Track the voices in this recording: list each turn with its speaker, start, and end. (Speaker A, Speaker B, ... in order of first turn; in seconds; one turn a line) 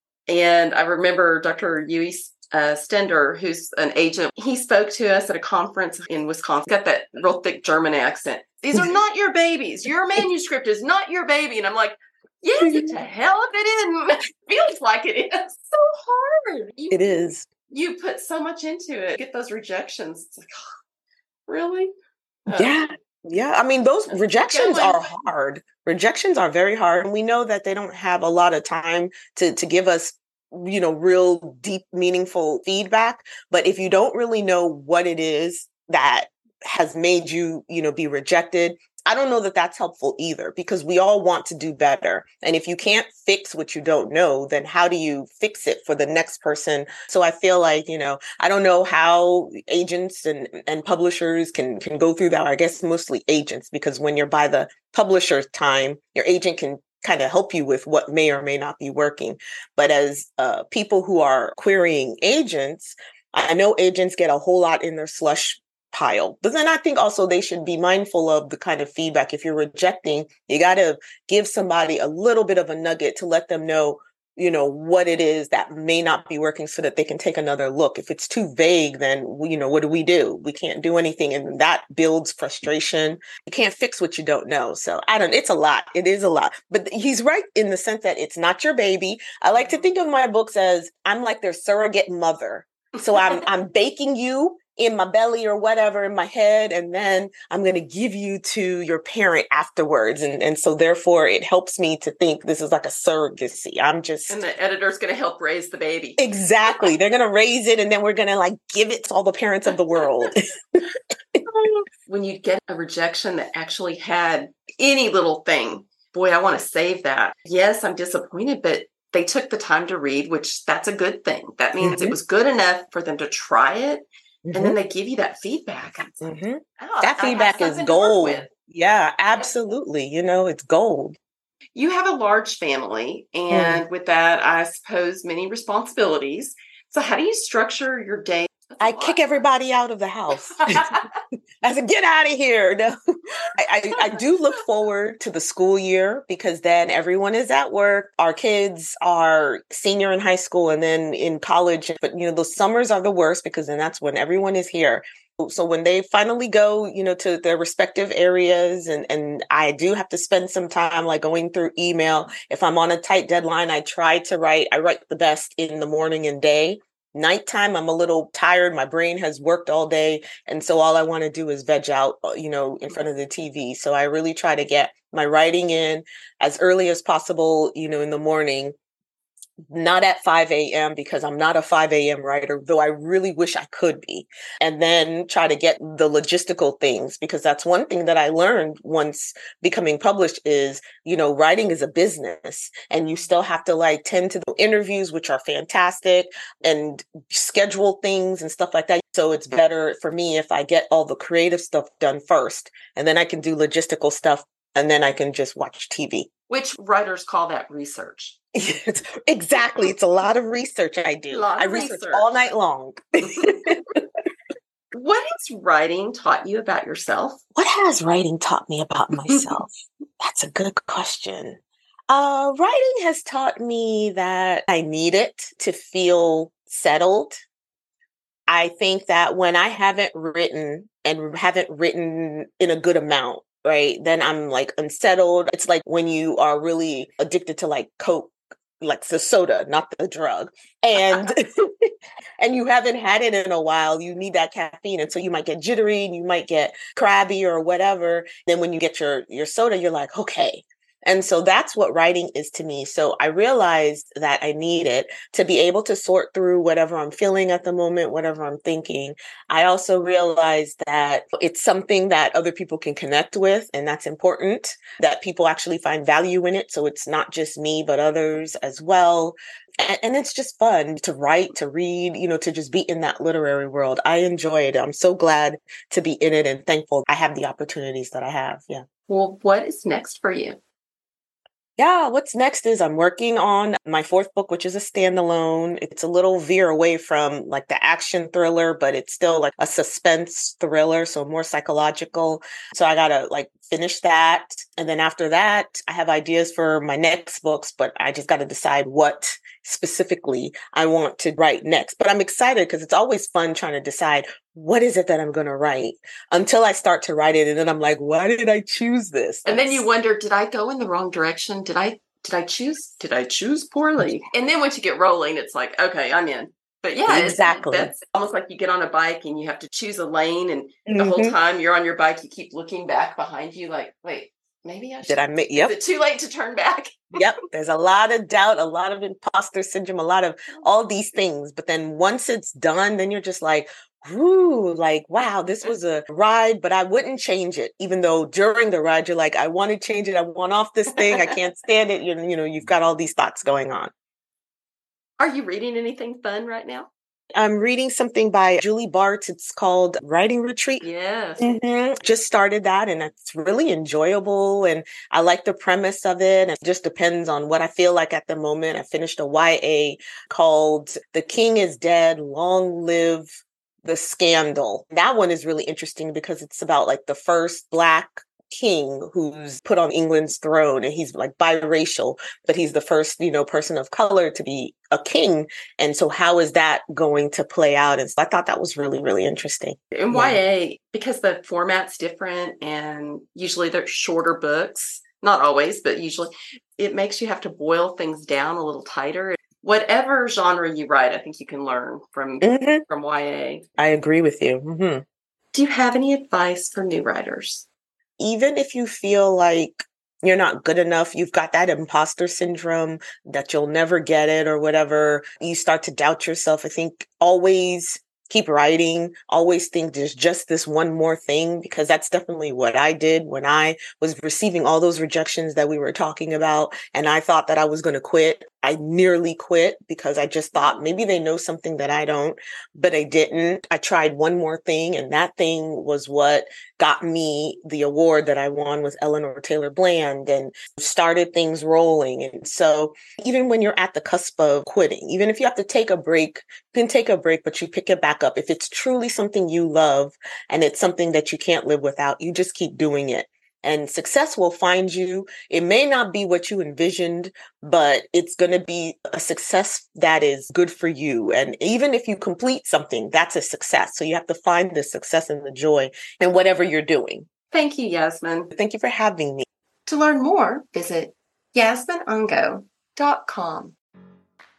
Speaker A: 0.3-20.6
Speaker B: 12.6-13.0
Speaker B: 16.9-17.5
Speaker A: 21.5-21.9
Speaker A: 22.4-22.8
Speaker B: 22.5-104.4
Speaker A: 24.1-25.1
Speaker A: 89.6-89.9
Speaker A: 104.3-106.2
Speaker B: 106.2-111.4
Speaker A: 111.5-128.5
Speaker B: 121.8-122.1
Speaker B: 124.4-124.8
Speaker B: 126.2-131.2
Speaker A: 131.7-139.4
Speaker B: 133.5-133.8
Speaker B: 138.8-140.9
Speaker A: 140.6-141.1
Speaker B: 141.6-178.7
Speaker B: 179.7-206.3
Speaker A: 206.5-208.4
Speaker B: 208.5-214.0
Speaker A: 211.3-212.4
Speaker A: 214.9-217.4
Speaker B: 217.5-227.4
Speaker B: 228.5-278.8
Speaker A: 279.1-280.6
Speaker B: 281.8-309.8
Speaker A: 309.4-327.2
Speaker B: 317.1-317.9
Speaker B: 320.9-321.4
Speaker B: 325.0-325.7
Speaker B: 327.1-343.9
Speaker A: 345.2-346.9
Speaker B: 347.3-350.8
Speaker A: 350.8-351.5
Speaker B: 351.4-380.4
Speaker A: 379.9-393.6
Speaker B: 392.4-392.8
Speaker B: 393.8-395.0
Speaker A: 395.5-397.6
Speaker B: 398.2-457.3
Speaker A: 457.5-458.5
Speaker B: 458.5-459.4
Speaker A: 459.9-463.7